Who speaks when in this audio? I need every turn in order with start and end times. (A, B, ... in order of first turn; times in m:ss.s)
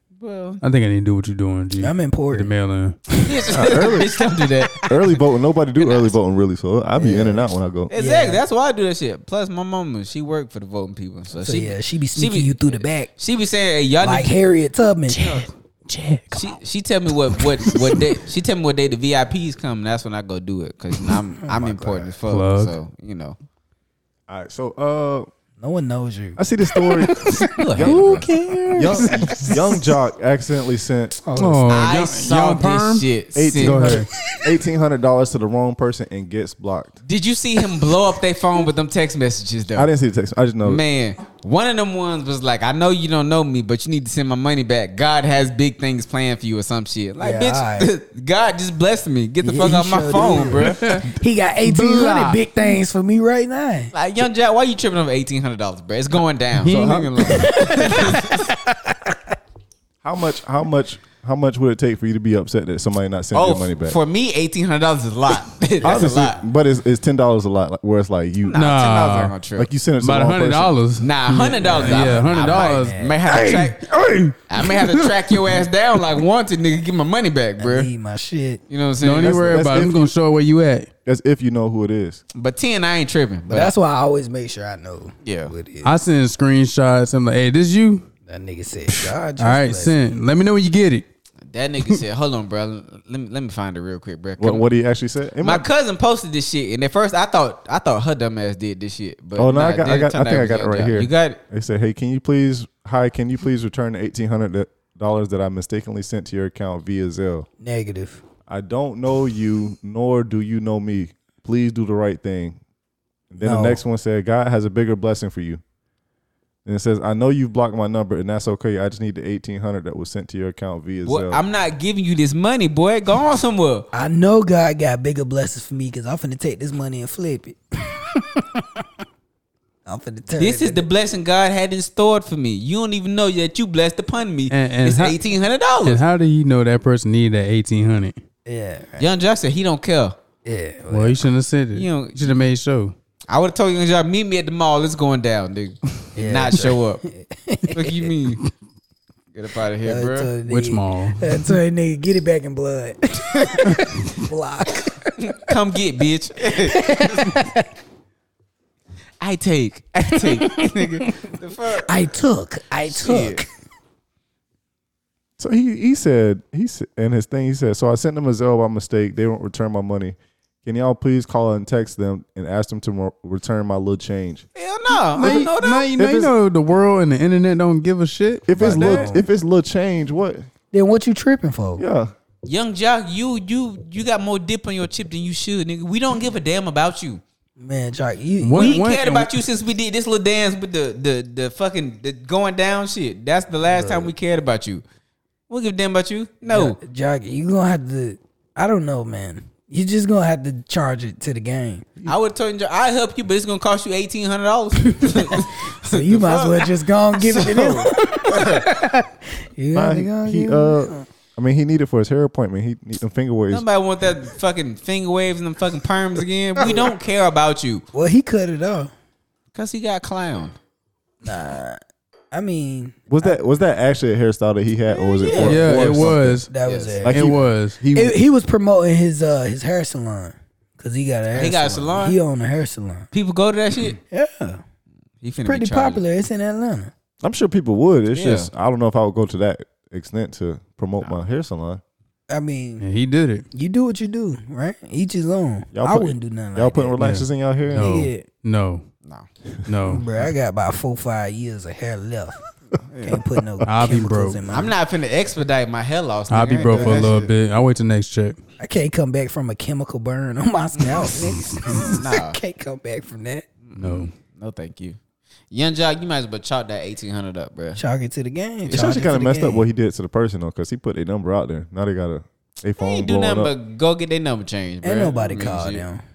0:00.2-0:00.6 A
0:00.6-0:03.2 B
0:01.8-0:02.5 C
0:03.2-0:05.2 A
0:03.5-0:04.1 D
0:04.9-0:07.9 D
0:05.8-0:06.2 A
0:07.0-0:08.4 C
0:07.9-0:14.3 A
0:11.4-0:13.1 C
0:14.0-0:15.4 C
0:15.1-0:16.4 B
0:16.3-0:23.4 A
0:21.4-0:22.1 C
0:22.3-0:22.8 B
0:24.3-0:25.3 D
0:25.6-0:26.4 C
0:26.4-0:31.2 D
0:27.0-0:29.6 B
0:27.6-0:28.2 A
0:28.5-0:29.6 C
0:31.2-0:31.7 C
0:31.4-0:33.0 B
0:31.7-0:34.0 A
0:33.4-0:37.0 D
0:33.6-0:34.1 B
0:37.0-0:39.9 A
0:39.8-0:40.8 D
0:40.6-0:51.0 A
0:47.2-0:47.9 C
0:49.4-0:53.9 C
0:50.6-0:51.1 B
0:51.6-0:52.4 B
0:53.9-0:58.4 A
0:56.6-0:58.6 B
0:57.3-0:58.2 C
1:00.0-1:04.0 D
1:03.3-1:06.4 A
1:05.8-1:08.6 D
1:05.8-1:06.1 C
1:08.4-1:09.7 A
1:08.5-1:09.3 B
1:09.6-1:10.8 D
1:10.0-1:15.0 B
1:11.0-1:13.9 A
1:11.6-1:13.7 C
1:14.5-1:17.9 A
1:17.6-1:18.6 C
1:18.7-1:19.6 A
1:19.0-1:20.9 B
1:19.2-1:20.1 D
1:21.1-1:22.2 D
1:22.4-1:23.7 A
1:23.5-1:25.9 C
1:25.2-1:25.5 A
1:25.8-1:28.0 B
1:28.3-1:29.9 C
1:28.9-1:31.1 B
1:31.5-1:34.6 A
1:34.4-1:35.7 D
1:35.4-1:41.4 A
1:39.4-1:47.5 D
1:47.6-1:48.2 C
1:48.5-1:52.6 D
1:53.3-1:55.6 D
1:53.4-1:53.8 C
1:56.6-2:01.4 D
2:01.0-2:03.9 A
2:03.9-2:08.8 C
2:09.9-2:10.9 C
2:10.4-2:16.0 A
2:14.5-2:15.2 B
2:15.8-2:18.2 B
2:18.5-2:19.1 C
2:19.0-2:20.2 A
2:20.4-2:21.2 C
2:20.9-2:23.0 B
2:21.7-2:22.3 A
2:23.3-2:27.0 A
2:26.2-2:28.1 C
2:27.7-2:28.4 A
2:29.3-2:30.3 A
2:29.8-2:35.1 C
2:30.5-2:31.6 B
2:35.2-2:36.9 A
2:36.6-2:37.7 C
2:39.2-2:42.2 A
2:40.2-2:41.3 C
2:41.8-2:43.5 C
2:42.8-2:43.4 A
2:45.4-2:54.5 D
2:54.6-2:55.9 A
2:54.9-2:59.1 B
2:56.0-2:56.3 D
2:58.5-3:00.5 D
2:58.6-2:59.2 C
3:00.7-3:01.8 C
3:01.8-3:02.1 D
3:02.4-3:07.2 A
3:07.6-3:08.8 C
3:08.4-3:09.4 B
3:08.5-3:14.8 A
3:13.7-3:14.1 C
3:15.5-3:16.8 A
3:16.5-3:21.9 C
3:22.0-3:28.7 A
3:24.9-3:31.1 C
3:29.7-3:33.7 D
3:33.5-3:37.8 A
3:37.9-3:38.9 C
3:39.5-3:40.6 A
3:41.2-3:41.8 C
3:42.3-3:43.4 C
3:43.1-3:46.5 D
3:45.2-3:46.0 A
3:45.3-3:47.4 C
3:45.4-3:46.5 B
3:46.6-3:47.0 A
3:47.0-3:48.2 D
3:47.0-3:47.8 B
3:47.9-3:53.1 C
3:51.3-3:52.2 A
3:53.1-3:54.0 A
3:54.0-3:54.6 C
3:55.2-3:56.0 A
3:55.4-3:56.9 C
3:57.2-4:01.8 D
3:58.1-3:58.5 A
4:02.3-4:02.8 C
4:02.8-4:03.5 B
4:03.5-4:07.0 C
4:05.7-4:07.9 D
4:07.0-4:08.8 B
4:07.7-4:08.3 C
4:09.7-4:10.0 B
4:09.9-4:12.4 C
4:12.9-4:13.2 A
4:13.0-4:14.8 C
4:13.7-4:14.4 B
4:14.5-4:17.3 A
4:16.3-4:18.4 B
4:16.7-4:17.1 C
4:18.6-4:23.5 C
4:22.0-4:22.4 A
4:23.6-4:25.0 A
4:23.8-4:24.1 B
4:25.5-4:27.8 A
4:27.8-4:29.6 C
4:28.7-4:33.5 D
4:32.8-4:35.8 A
4:34.8-4:36.0 C